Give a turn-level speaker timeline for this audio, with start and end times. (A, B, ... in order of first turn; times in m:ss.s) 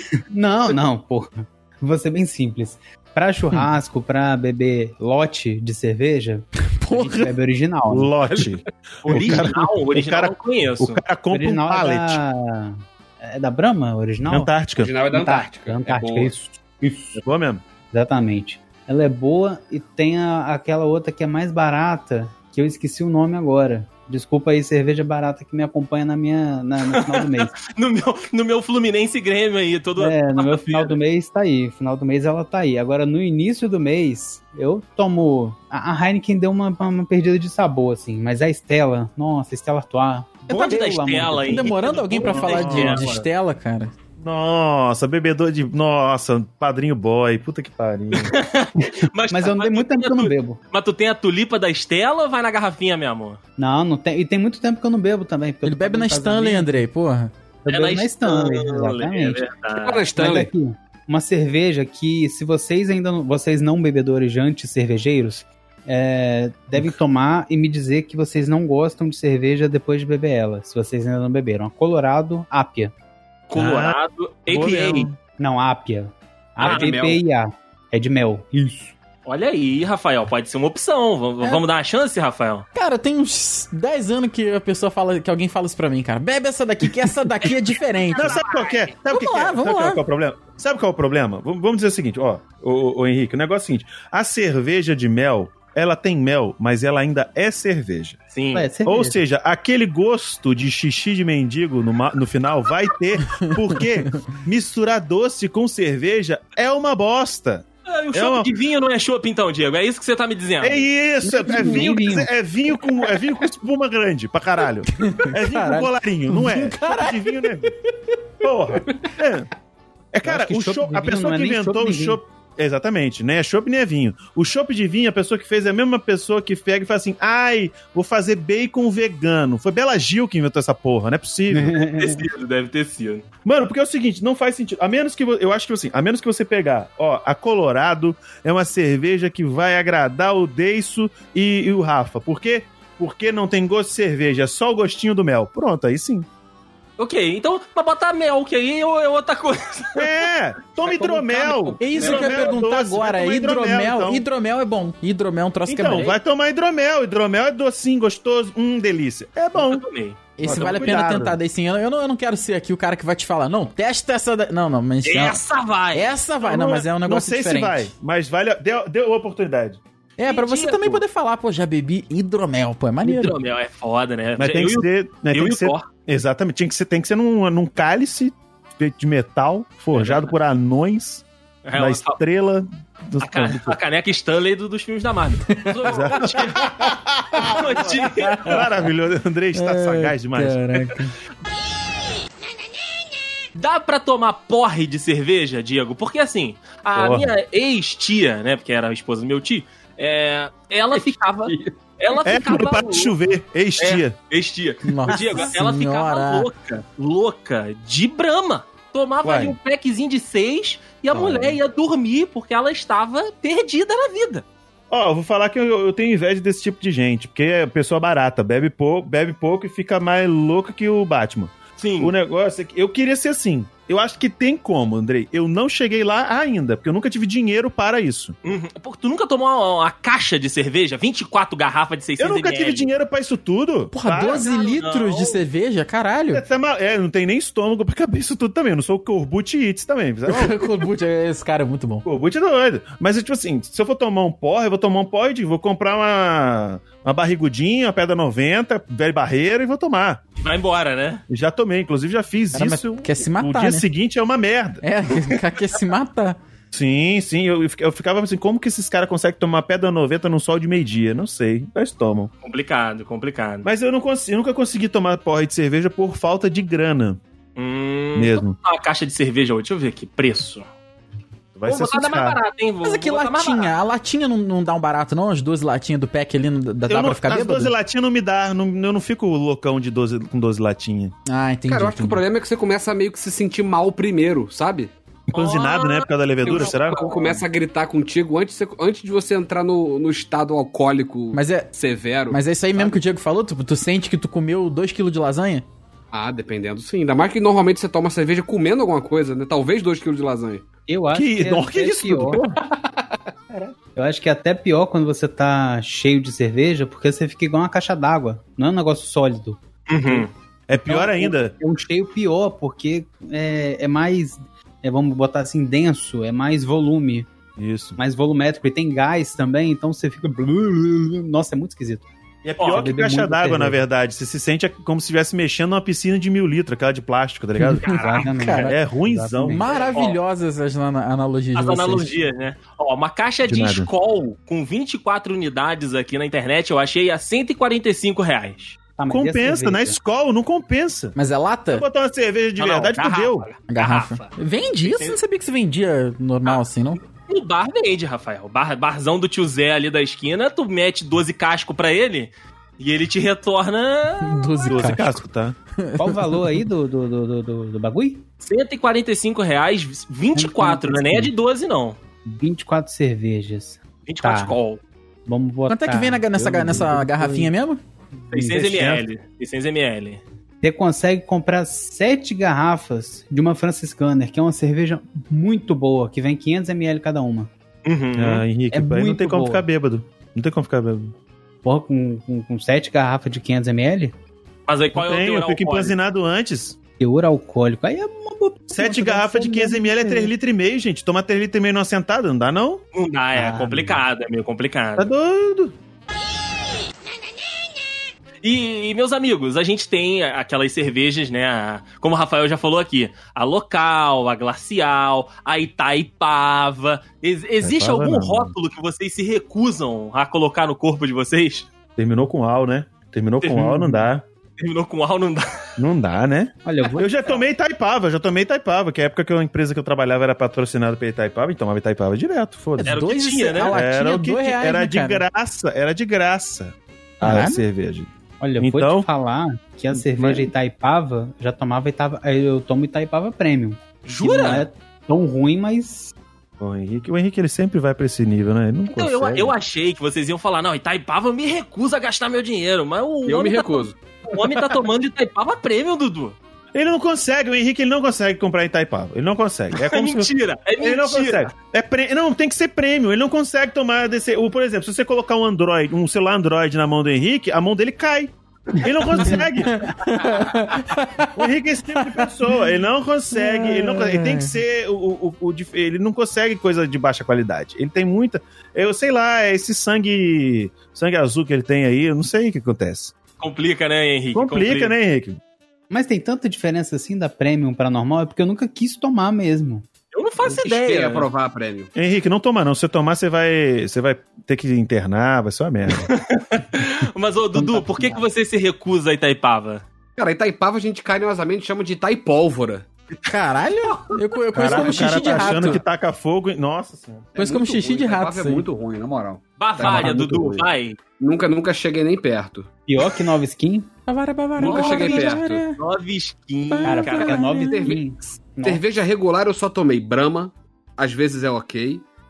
0:00.3-0:08.2 A
0:06.7-0:07.3 B
0:07.9-0:12.2 C
0:09.0-0:11.0 D
0:09.1-0:09.4 A
0:11.3-0:17.2 A
0:14.3-0:15.0 C
0:14.8-0:16.3 E
0:17.2-0:17.6 C
0:17.9-0:27.5 A
0:26.8-0:31.0 D
0:30.0-0:41.8 A
0:40.5-0:43.2 D
0:41.5-0:43.9 B
0:42.2-0:43.2 C
0:44.2-0:48.4 C
0:48.1-0:53.4 D
0:48.8-0:50.6 A
0:53.6-0:56.7 A
0:55.6-0:57.3 B
0:57.6-0:59.4 A
0:57.7-1:00.1 D
0:59.7-1:00.5 E
1:00.1-1:12.9 A
1:13.5-1:15.1 D
1:13.6-1:15.2 C
1:15.4-1:18.9 A
1:16.6-1:17.2 E
1:16.6-1:16.9 D
1:19.3-1:22.7 D
1:22.8-1:28.4 B
1:28.2-1:28.9 D
1:28.2-1:38.2 C
1:29.1-1:30.0 B
1:38.3-1:38.7 D
1:38.5-1:39.2 A
1:38.8-1:48.5 C
1:47.9-1:50.9 D
1:50.6-1:57.7 C
1:51.2-1:52.3 A
1:55.0-1:57.7 B
1:58.4-1:59.5 C
2:00.1-2:11.8 C
2:00.2-2:02.2 A
2:11.5-2:12.2 A
2:11.9-2:13.3 D
2:13.4-2:26.3 C
2:27.0-2:30.2 D
2:30.0-2:34.3 C
2:30.9-2:32.2 E
2:31.8-2:36.2 B
2:31.9-2:32.3 D
2:35.7-2:39.9 C
2:39.6-2:40.8 D
2:40.4-2:45.4 B
2:40.4-2:41.4 C
2:45.0-2:46.2 D
2:45.9-2:47.9 B
2:46.4-2:49.8 C
2:50.2-2:53.4 B
2:50.2-2:51.0 D
2:53.0-2:55.9 D
2:54.4-3:01.2 C
2:59.9-3:00.3 D
3:01.7-3:02.2 D
3:01.8-3:03.8 C
3:03.2-3:06.8 D
3:05.9-3:10.9 C
3:07.4-3:08.6 B
3:07.4-3:08.6 D
3:09.5-3:11.1 B
3:13.6-3:23.2 D
3:17.0-3:17.3 C
3:21.5-3:21.8 E
3:22.2-3:24.2 C
3:23.8-3:34.4 D
3:24.8-3:26.5 B
3:29.2-3:29.6 C
3:31.1-3:31.6 C
3:34.9-3:48.4 C
3:41.8-3:42.2 D
3:48.4-3:52.9 D
3:52.2-3:54.4 C
3:53.9-3:56.4 B
3:54.2-3:55.4 D
3:56.3-4:00.9 C
4:00.3-4:02.1 B
4:02.0-4:10.2 C
4:10.4-4:11.2 D
4:11.3-4:14.8 C
4:12.5-4:13.9 B
4:14.8-4:16.4 B
4:16.7-4:22.3 C
4:22.4-4:23.7 D
4:23.6-4:27.2 C
4:27.6-4:30.7 D
4:28.2-4:28.6 C
4:31.6-4:32.4 C
4:31.6-4:33.8 D
4:32.8-4:37.7 B
4:36.9-4:41.1 C
4:41.3-4:42.2 B
4:41.7-4:44.9 E
4:45.3-4:47.0 C
4:45.3-4:47.4 D
4:46.4-4:53.0 E
4:51.3-4:51.7 B
4:52.3-4:55.6 B
4:56.1-5:00.7 E
5:00.9-5:02.4 A
5:01.1-5:02.6 C
5:04.0-5:17.3 A
5:09.9-5:10.3 D
5:10.7-5:11.6 C
5:17.6-5:18.0 C
5:18.0-5:22.1 A
5:22.4-5:29.7 C
5:22.6-5:22.9 D
5:22.7-5:23.8 A
5:27.6-5:28.7 B
5:27.8-5:28.7 D
5:27.8-5:29.9 A
5:29.5-5:32.2 B
5:29.8-5:30.2 D
5:31.6-5:38.8 D
5:33.4-5:33.9 C
5:39.0-5:40.0 A
5:39.1-5:41.2 C
5:41.2-5:41.8 B
5:41.7-5:43.5 C
5:42.6-5:45.2 D
5:43.7-5:47.0 B
5:47.2-5:54.7 D
5:54.2-5:55.2 B
5:54.7-5:55.6 C
5:55.8-5:56.6 B
5:56.0-5:58.2 A
5:58.4-6:02.0 D
6:00.4-6:01.3 A
6:02.2-6:04.6 A
6:04.1-6:04.8 D
6:05.3-6:07.5 A
6:05.7-6:07.8 B
6:08.3-6:10.2 D
6:08.4-6:09.0 C
6:10.6-6:17.5 A
6:17.8-6:18.4 D
6:18.2-6:21.1 C
6:18.7-6:19.6 A
6:21.6-6:24.1 A
6:24.7-6:26.0 D
6:24.9-6:26.8 C
6:27.0-6:30.3 A
6:28.7-6:32.8 C
6:32.9-6:35.1 D
6:33.4-6:34.0 A
6:35.0-6:35.8 C
6:38.4-6:51.7 D
6:47.6-6:48.5 C
6:52.0-6:54.2 C
6:53.4-6:53.7 D
6:53.7-6:54.1 A
6:54.6-6:55.6 D
6:55.8-7:03.0 C
6:56.6-6:57.4 A
7:02.8-7:05.2 B
7:02.9-7:03.8 D
7:03.6-7:09.1 C
7:07.2-7:07.6 B
7:08.4-7:16.1 A
7:09.9-7:10.5 C
7:14.1-7:14.7 D
7:16.6-7:19.5 C
7:18.9-7:26.4 D
7:23.2-7:24.0 E
7:26.7-7:39.9 C
7:29.7-7:31.5 D
7:39.2-7:42.3 B
7:41.4-7:53.2 C
7:43.3-7:44.6 B
7:53.4-7:55.0 D
7:54.3-7:55.4 C
7:55.9-7:59.9 A
8:00.1-8:01.3 D
8:00.5-8:01.9 E
8:02.0-8:06.1 C
8:06.0-8:09.8 D
8:07.5-8:08.2 A
8:10.2-8:12.9 E
8:13.3-8:15.8 B
8:14.5-8:17.3 C
8:15.1-8:15.5 E
8:17.4-8:20.7 E
8:17.4-8:18.7 B
8:19.6-8:21.0 D
8:19.8-8:20.5 A
8:21.2-8:22.7 E
8:22.9-8:23.9 A
8:24.1-8:25.8 B
8:24.6-8:25.6 E
8:24.6-8:27.5 D
8:26.7-8:27.9 B
8:26.8-8:28.8 A
8:27.6-8:32.0 E